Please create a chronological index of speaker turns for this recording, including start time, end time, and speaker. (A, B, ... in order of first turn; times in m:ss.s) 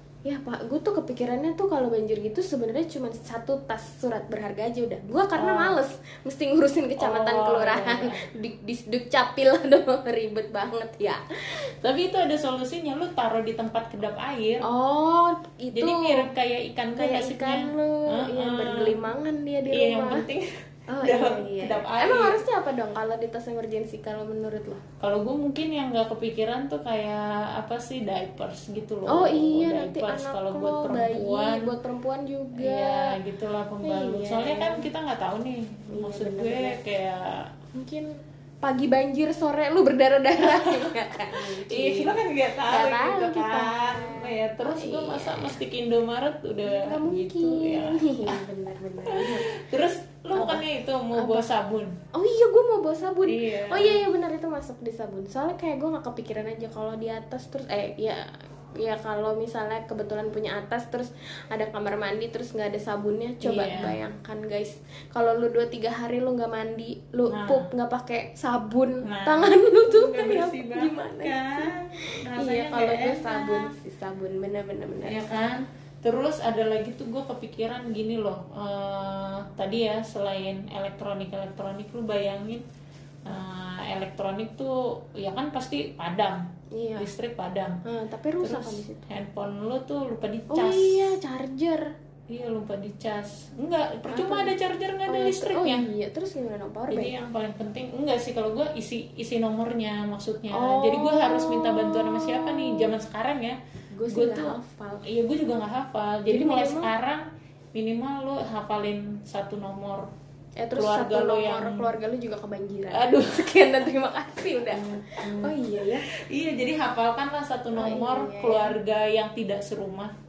0:00.2-0:11.2 A
0:05.4-0:05.8 B
0:07.0-0:08.2 B
0:11.7-0:14.6 B
0:14.6-0:16.3 A
0:15.7-0:19.0 B
0:17.0-0:20.2 A
0:19.7-0:20.5 B
0:20.9-0:24.8 A
0:21.0-0:22.4 B
0:25.0-0:31.7 B
0:29.1-0:33.1 A
0:32.6-0:37.5 B
0:33.8-0:34.9 A
0:35.9-0:36.8 A
0:37.7-0:45.6 A
0:40.4-0:48.4 B
0:46.6-0:49.5 A
0:49.0-0:51.9 B
0:50.3-0:51.5 A
0:52.1-1:15.4 A
0:53.2-0:54.0 B
1:03.4-1:04.0 B
1:07.3-1:07.7 B
1:09.0-1:13.7 B
1:15.0-1:22.6 B
1:23.2-1:26.4 B
1:26.7-1:27.1 A
1:27.0-1:27.8 B
1:27.8-1:29.0 A
1:28.4-1:31.1 B
1:30.5-1:31.9 A
1:32.3-1:35.8 B
1:34.1-1:34.5 A
1:35.1-1:37.1 A
1:36.9-1:43.6 B
1:40.5-1:42.9 A
1:43.9-1:45.1 A
1:44.1-1:50.1 B
1:46.3-1:46.9 A
1:50.6-1:56.1 A
1:50.7-1:51.9 B
1:52.9-1:53.8 B
1:54.7-2:00.1 B
1:57.7-1:58.8 A